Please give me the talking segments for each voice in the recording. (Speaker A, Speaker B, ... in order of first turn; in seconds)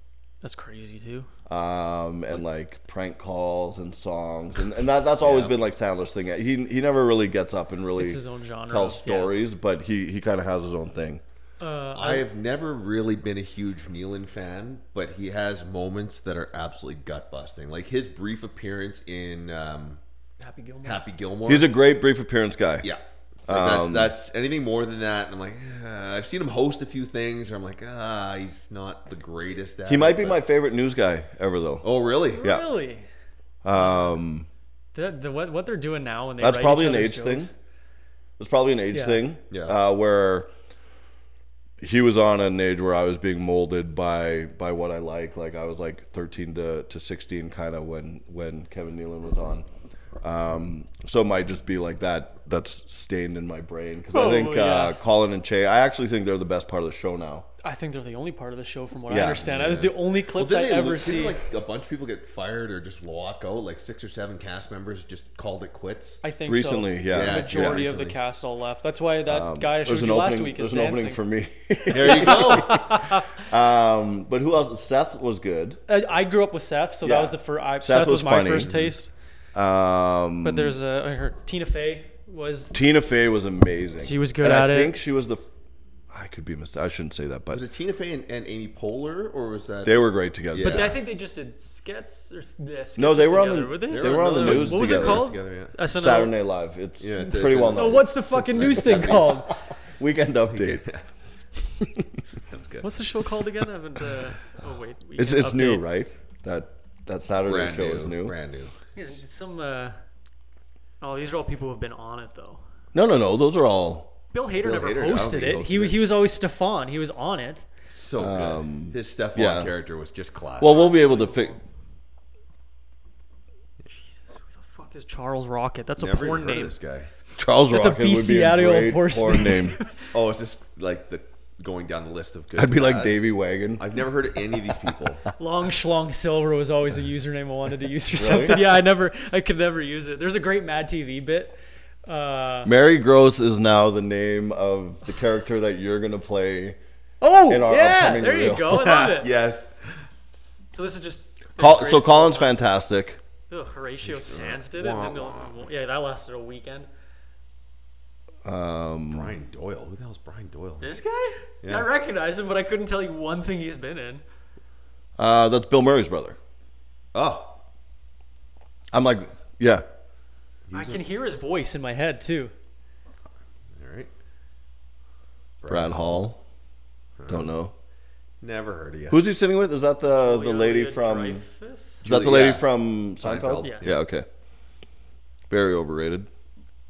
Speaker A: 0.4-1.3, 7.9-9.3, 11.6-12.2, 20.4-21.0, 32.3-33.0, 33.7-34.1, 34.9-37.5, 38.9-39.2, 54.1-55.0, 57.6-61.4, 66.2-71.2, 72.0-73.2, 75.9-79.1, 80.4-82.7, 84.0-85.0, 90.6-96.4, 97.7-99.5, 102.8-105.8, 108.9-109.9, 111.0-112.6, 114.3-117.6, 120.6-121.6, 123.9-126.8, 127.7-129.9, 135.4-142.7, 147.2-149.3, 150.7-152.5, 153.5-156.9, 160.8-164.2, 170.7-172.5, 180.1-182.0, 183.6-183.9
Speaker B: 1.5-11.2, 21.5-22.9, 23.5-24.1, 29.9-31.9, 33.6-34.5, 36.4-37.5, 38.4-40.5, 41.8-49.6, 50.2-57.5, 59.1-59.9, 66.5-67.8, 69.2-75.8, 77.0-78.8, 79.5-80.8, 82.7-85.4, 86.1-87.6, 89.8-90.9, 93.0-95.3, 95.9-99.0, 100.0-100.9, 105.2-108.3, 112.9-114.1, 118.2-119.7, 120.6-121.6, 127.3-129.8, 132.6-133.8, 138.2-138.6, 142.6-146.8, 147.5-148.7, 151.6-153.2, 158.4-159.3, 165.2-166.4, 168.9-169.8, 175.7-176.4, 177.3-177.7, 179.1-181.4, 182.0-184.3, 185.5-186.3
Speaker C: 5.2-5.5, 11.9-20.0, 20.8-21.7, 22.8-30.4, 31.8-32.5, 39.5-39.8, 60.3-66.2, 67.1-68.2, 71.9-72.8, 87.5-91.0, 93.9-95.7, 97.0-99.5, 100.5-101.0, 102.3-102.9, 107.4-108.7, 114.6-116.1, 117.9-120.9, 126.0-127.1, 130.1-133.2, 133.8-135.2, 148.7-149.9, 154.0-155.6, 159.1-161.0, 161.6-161.9, 167.1-167.6, 170.7-171.0, 173.7-174.1, 175.6-176.3, 177.2-177.5, 178.4-179.3, 182.0-184.0